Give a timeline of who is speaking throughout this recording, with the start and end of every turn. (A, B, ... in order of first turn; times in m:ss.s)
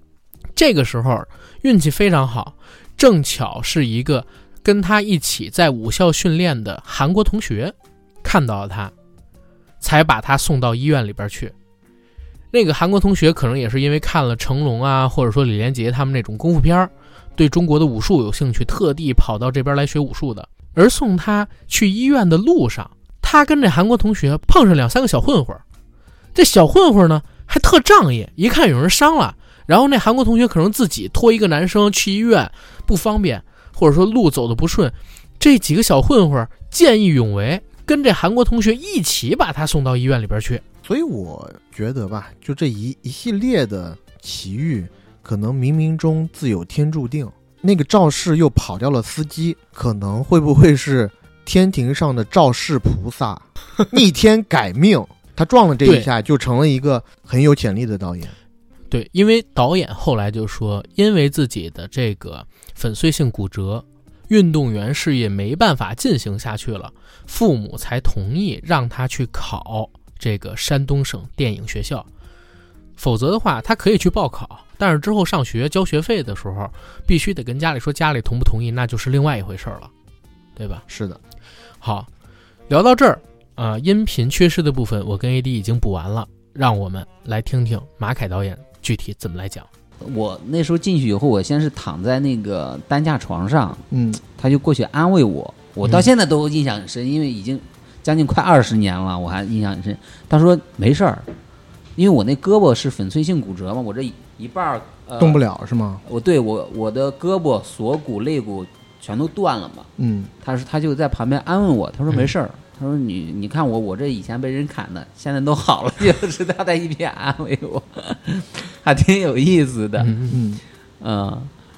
0:00.6-0:08.9 A
0:09.8-0:11.5 A
0:12.5-0:25.6 A
0:26.3-0:40.6 A
0:40.8-0:58.3 B
0:58.9-1:12.1 A
1:13.0-1:19.9 A
1:20.6-1:20.8 A
1:20.9-1:21.2 B
1:21.8-1:22.1 A
1:22.7-1:29.7 A
1:30.0-1:33.8 C
1:33.9-1:34.2 B
1:34.4-1:41.3 C
1:42.0-1:45.4 C
1:45.2-1:46.0 B
1:46.0-1:49.9 C
1:50.0-1:50.3 B
1:50.4-2:00.1 C
2:00.0-2:00.3 A
2:00.3-2:00.6 B
2:01.0-2:01.5 C